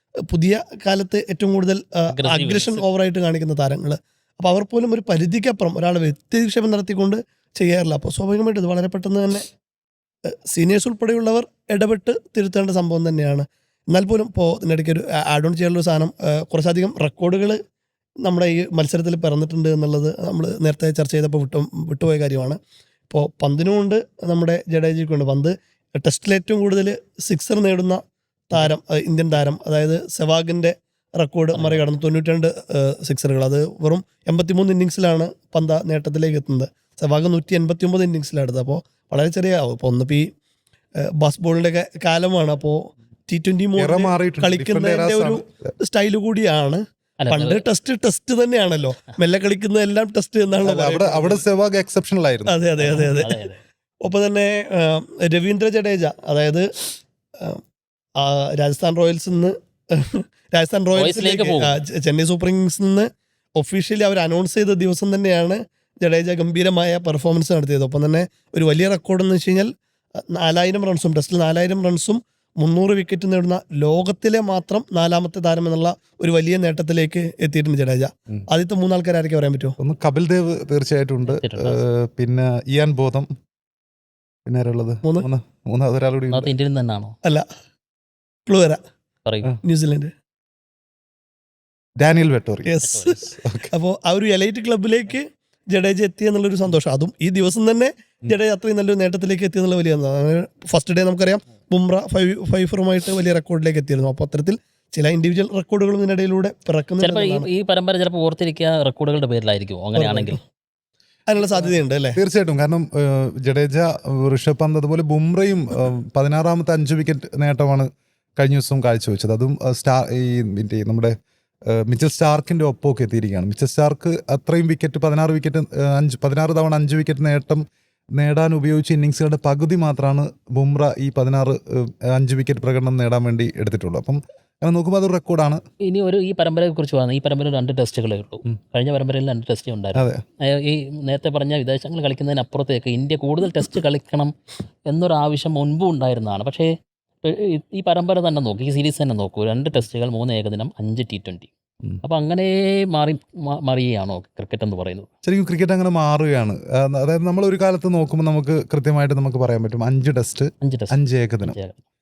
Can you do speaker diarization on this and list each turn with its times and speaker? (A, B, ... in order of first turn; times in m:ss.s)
0:00.3-0:09.4 A
0:02.1-0:02.8 B
0:10.5-0:17.6 A
0:18.2-0:22.6 A
0:23.1-0:28.0 A
0:28.5-0:40.2 A
0:31.5-0:31.8 B
0:41.2-0:51.4 A
0:43.8-0:45.5 C
0:47.2-0:47.6 B
0:50.6-0:52.6 C
0:52.5-0:53.4 A
0:52.8-0:53.6 B
0:54.0-0:56.6 A
0:58.2-1:03.1 A
1:01.0-1:01.7 B
1:03.6-1:19.8 A
1:19.8-1:23.3 C
1:21.3-1:21.8 B
1:24.5-1:26.5 C
1:26.3-1:27.1 B
1:28.5-1:28.8 A
1:29.2-1:29.5 B
1:29.6-1:30.1 A
1:32.0-1:33.7 C
1:32.7-1:47.5 A
1:32.8-1:33.2 B
1:47.0-1:50.4 B
1:50.0-1:50.4 A
1:51.3-1:52.2 A
1:52.2-1:57.9 C
1:58.4-2:01.1 C
2:01.7-2:07.6 C
2:08.2-2:15.6 C
2:15.9-2:24.3 B
2:20.0-2:20.2 C
2:24.9-2:26.7 B
2:27.2-2:31.5 B
2:32.0-2:35.1 B
2:35.2-2:41.6 C
2:40.6-2:41.8 B